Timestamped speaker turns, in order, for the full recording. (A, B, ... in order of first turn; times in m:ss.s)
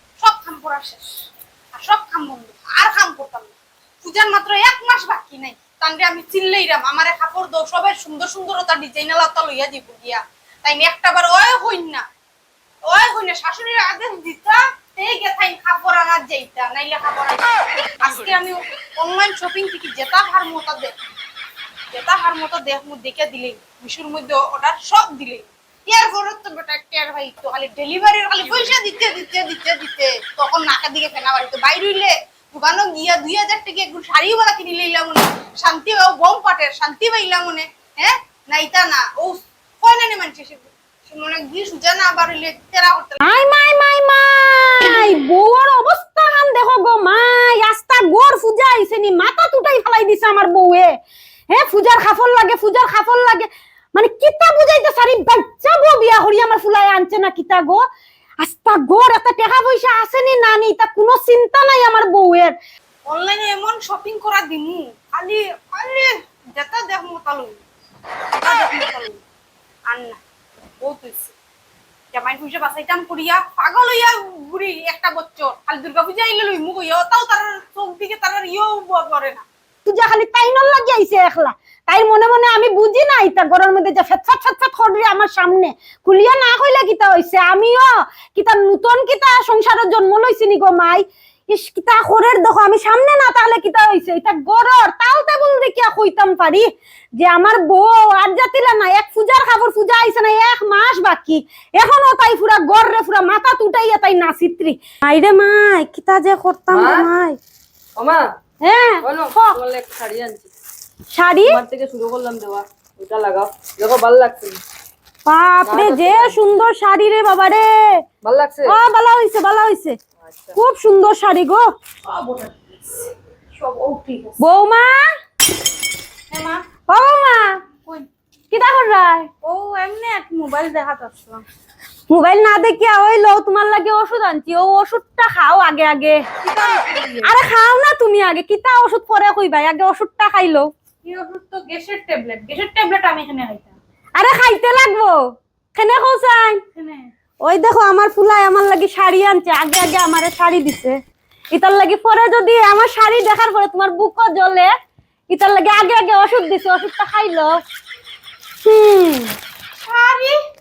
0:00.2-0:01.1 A
0:01.8-0:12.0 A
0:12.9-0:17.5 A
0:18.0-0:20.9 A
0:21.9-0:43.2 A
0:43.2-0:50.9 B
0:51.5-0:57.8 B
0:58.4-1:02.5 B
1:03.1-1:07.6 A
1:08.4-1:09.2 A
1:09.9-1:10.2 A
1:10.8-1:11.4 A
1:12.1-1:19.4 A
1:19.9-1:47.4 B
1:46.7-1:47.1 C
1:48.0-1:48.3 C
1:48.6-1:49.6 B
1:49.0-1:50.5 C
1:51.1-1:51.6 B
1:51.4-1:54.6 C
1:55.3-1:58.0 B
1:55.6-1:56.4 C
1:58.2-1:58.8 C
1:58.7-2:00.0 B
2:00.2-2:00.6 C
2:00.6-2:01.7 B
2:02.0-2:04.4 A
2:04.4-2:05.1 B
2:06.3-2:06.6 A
2:06.9-2:07.6 B
2:08.5-2:09.3 B
2:09.4-2:11.4 A
2:12.1-2:16.3 B
2:16.4-2:17.3 A
2:17.2-2:20.7 B
2:21.0-2:23.8 A
2:24.2-2:25.2 B
2:25.7-2:26.6 B
2:26.8-2:27.1 A
2:27.4-2:31.0 B
2:31.5-2:34.7 B
2:35.3-2:37.6 B
2:38.6-2:39.4 B
2:39.8-2:40.4 A